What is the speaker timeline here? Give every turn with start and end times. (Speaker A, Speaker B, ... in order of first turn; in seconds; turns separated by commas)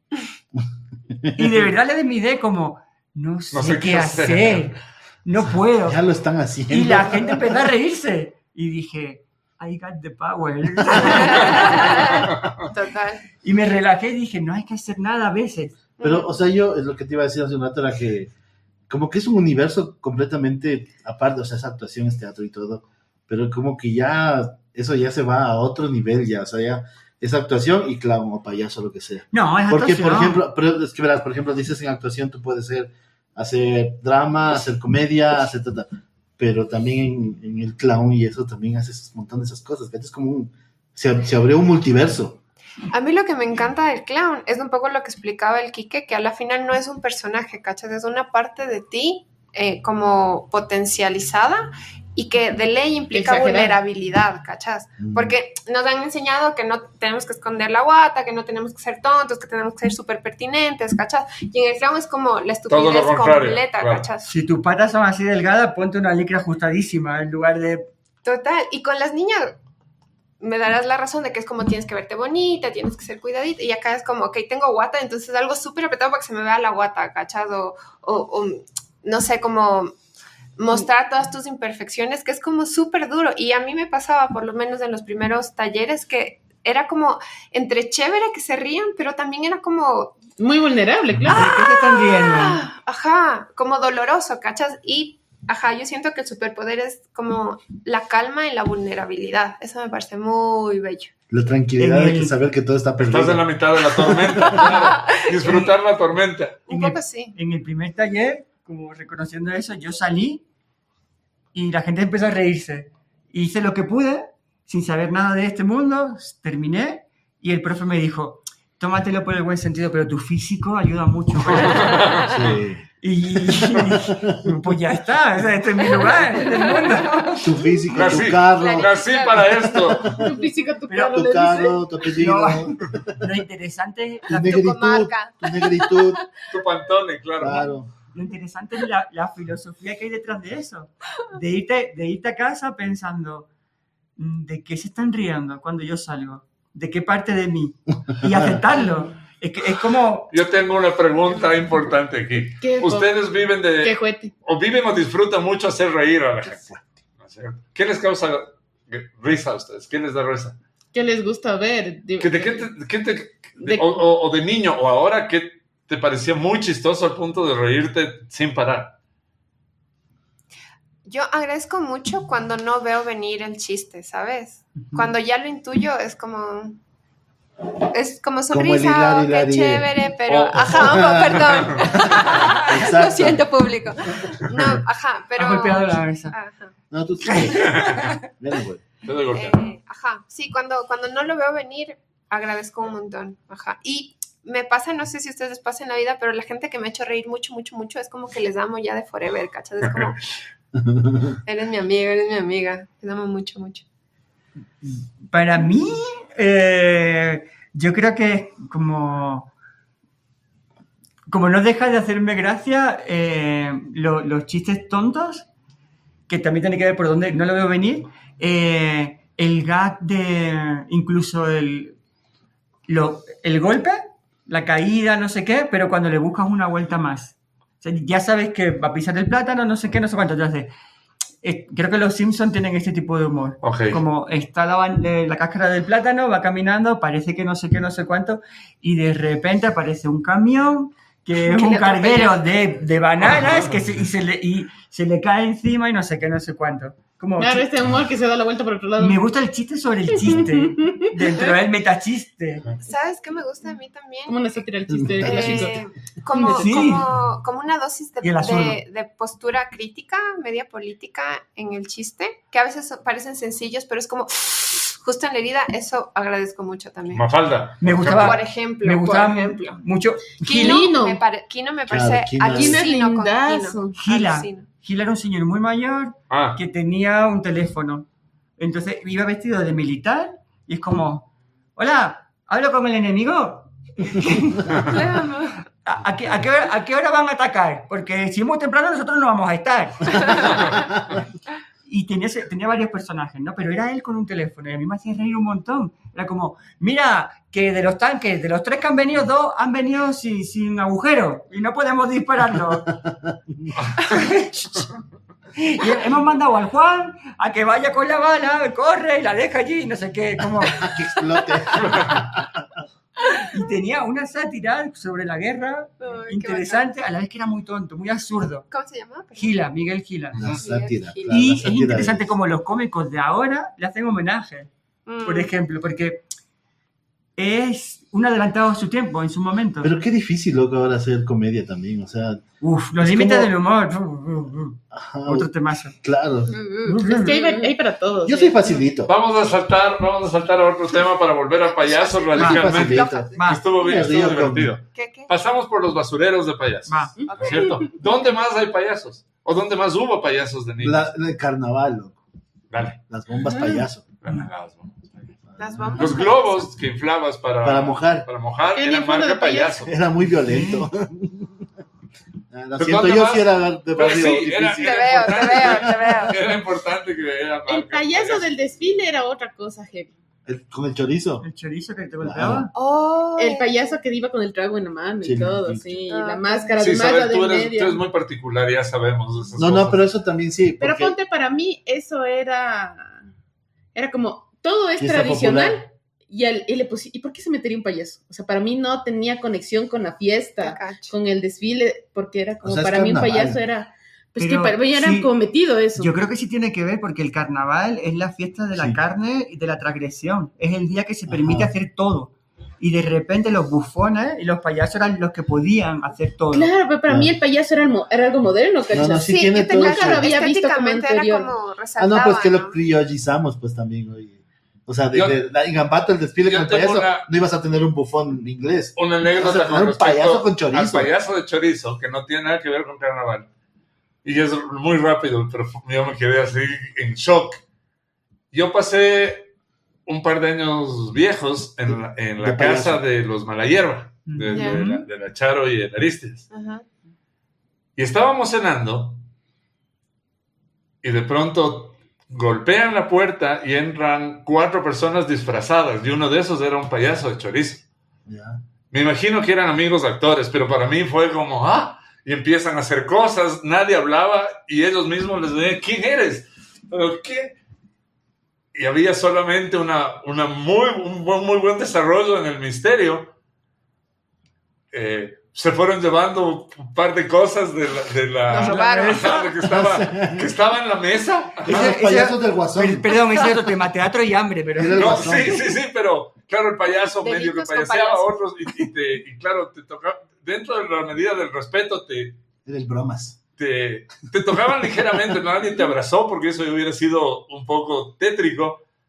Speaker A: 1.2-1.7, Speaker B: 1.4-6.0, Speaker C: 3.5-4.7, Speaker A: 5.8-7.7, Speaker B: 6.7-12.2, Speaker A: 10.9-11.2, Speaker D: 11.1-13.2, Speaker C: 12.2-12.7, Speaker B: 13.4-15.8, Speaker D: 16.0-16.3, Speaker A: 16.0-18.3, Speaker A: 18.9-42.4, Speaker B: 29.3-30.4, Speaker D: 42.9-64.3, Speaker E: 53.1-53.8, Speaker A: 55.0-55.4, Speaker C: 62.7-64.1, Speaker B: 64.2-67.9, Speaker D: 68.2-69.6, Speaker D: 70.4-79.9, Speaker D: 80.6-90.2, Speaker E: 90.4-91.5, Speaker B: 91.3-92.7, Speaker D: 91.3-101.1, Speaker A: 101.3-104.7, Speaker B: 101.8-102.3, Speaker C: 103.0-106.7, Speaker D: 104.4-105.3, Speaker B: 105.4-105.7, Speaker D: 106.7-107.3, Speaker B: 106.7-110.4, Speaker B: 111.5-122.2, Speaker C: 121.4-122.6, Speaker A: 122.3-122.8, Speaker B: 123.0-127.5, Speaker A: 123.4-124.7, Speaker D: 126.7-129.7, Speaker A: 127.4-130.4, Speaker C: 127.9-130.1, Speaker E: 130.1-131.8, Speaker B: 130.9-131.2, Speaker A: 131.1-133.3, Speaker B: 132.1-134.6, Speaker A: 134.3-136.2, Speaker D: 134.4-136.2, Speaker C: 136.5-137.7, Speaker A: 137.4-137.9, Speaker B: 138.1-143.5, Speaker B: 144.2-150.3, Speaker A: 148.2-148.6, Speaker C: 150.3-160.6, Speaker E: 152.6-153.1, Speaker E: 153.8-154.3, Speaker E: 160.9-162.7, Speaker C: 162.2-169.0, Speaker E: 163.6-164.0, Speaker D: 171.1-176.8, Speaker B: 174.8-175.1, Speaker D: 177.9-186.7, Speaker A: 178.5-179.9, Speaker C: 180.3-182.2, Speaker A: 180.6-183.5, Speaker A: 184.2-184.8, Speaker B: 185.4-186.3, Speaker A: 186.9-188.8, Speaker B: 187.2-188.2, Speaker C: 187.5-188.1, Speaker C: 189.0-189.7, Speaker D: 189.3-200.2, Speaker C: 199.8-200.2, Speaker A: 200.8-201.4, Speaker D: 201.4-203.8, Speaker B: 204.8-209.5, Speaker B: 211.3-215.5, Speaker B: 216.3-222.0, Speaker B: 222.9-230.7, Speaker B: 231.4-247.7, Speaker C: 233.6-234.0, Speaker D: 241.4-242.4, Speaker C: 243.2-243.7, Speaker E: 247.4-249.2, Speaker B: 249.0-252.7, Speaker E: 250.2-251.4, Speaker D: 252.8-254.6, Speaker E: 254.3-255.8, Speaker A: 254.9-255.8, Speaker D: 255.2-267.3, Speaker B: 256.3-257.1, Speaker B: 258.2-258.8, Speaker C: 267.1-268.4, Speaker B: 267.8-270.9, Speaker D: 268.1-269.8, Speaker D: 270.4-274.7, Speaker E: 270.4-271.2, Speaker A: 271.9-272.8, Speaker E: 272.5-274.0, Speaker B: 273.9-278.1, Speaker C: 276.3-276.6, Speaker B: 278.6-285.2, Speaker D: 284.7-285.6, Speaker B: 285.8-291.0, Speaker C: 290.4-290.7, Speaker B: 291.9-302.9, Speaker A: 302.6-303.7, Speaker B: 304.0-304.9, Speaker B: 305.6-311.0, Speaker A: 310.6-312.7, Speaker B: 311.7-312.3, Speaker C: 311.8-312.2, Speaker B: 313.3-318.7, Speaker D: 316.0-316.9, Speaker D: 318.7-319.6, Speaker B: 319.4-320.4, Speaker A: 320.4-322.3, Speaker D: 320.5-321.4, Speaker B: 321.3-324.7, Speaker D: 325.1-325.5, Speaker B: 325.2-326.2, Speaker B: 327.4-329.9, Speaker A: 329.8-332.4, Speaker B: 332.6-336.0, Speaker A: 333.0-333.5, Speaker A: 334.9-335.5, Speaker A: 336.0-336.5, Speaker D: 336.5-337.7, Speaker B: 336.9-337.4, Speaker E: 337.1-338.8, Speaker A: 338.2-339.1, Speaker C: 339.1-351.1, Speaker D: 341.6-343.5, Speaker B: 342.4-343.6, Speaker A: 342.4-344.8, Speaker D: 344.9-345.3, Speaker B: 346.9-347.2, Speaker E: 347.2-347.7, Speaker D: 347.3-347.9, Speaker A: 350.8-352.2, Speaker C: 352.7-353.0, Speaker A: 353.1-354.1, Speaker E: 353.5-353.8, Speaker C: 354.2-355.3, Speaker A: 355.5-356.2, Speaker D: 355.6-356.7, Speaker C: 356.0-359.9, Speaker A: 357.6-358.3, Speaker E: 358.6-359.9, Speaker A: 359.9-361.5, Speaker B: 360.3-360.9, Speaker A: 362.5-366.2, Speaker C: 362.8-368.5, Speaker D: 364.7-366.4, Speaker E: 367.7-370.1, Speaker A: 370.5-371.4, Speaker B: 371.4-372.7, Speaker A: 372.2-372.7, Speaker D: 372.7-373.9, Speaker E: 373.4-378.0, Speaker A: 375.2-376.0, Speaker D: 376.1-376.9, Speaker C: 376.8-380.1, Speaker A: 379.6-381.1, Speaker E: 380.8-383.2, Speaker E: 383.9-396.1, Speaker A: 385.0-385.9, Speaker D: 390.6-391.1, Speaker A: 392.6-393.6, Speaker B: 394.4-395.3, Speaker B: 396.0-406.7, Speaker A: 398.8-399.0, Speaker A: 401.3-401.7, Speaker E: 406.5-411.5, Speaker A: 407.1-407.3, Speaker A: 408.9-410.3, Speaker D: 409.2-412.8, Speaker A: 412.0-421.1, Speaker C: 415.1-415.4, Speaker C: 416.5-417.3, Speaker C: 419.0-423.5, Speaker C: 424.2-427.6, Speaker C: 428.5-429.5, Speaker C: 430.1-436.5, Speaker A: 431.9-433.0, Speaker B: 434.3-435.1, Speaker D: 434.5-434.8, Speaker D: 436.5-436.9, Speaker C: 438.0-439.2, Speaker C: 441.0-447.9, Speaker A: 448.3-448.6, Speaker C: 448.9-457.6, Speaker C: 458.7-463.3, Speaker C: 464.9-472.0, Speaker D: 468.5-469.4, Speaker B: 468.6-469.5, Speaker A: 469.7-470.5, Speaker A: 471.6-473.5, Speaker B: 471.7-475.6, Speaker A: 474.8-475.7, Speaker C: 474.9-482.4, Speaker D: 477.2-478.3, Speaker A: 482.6-483.4, Speaker C: 483.6-488.8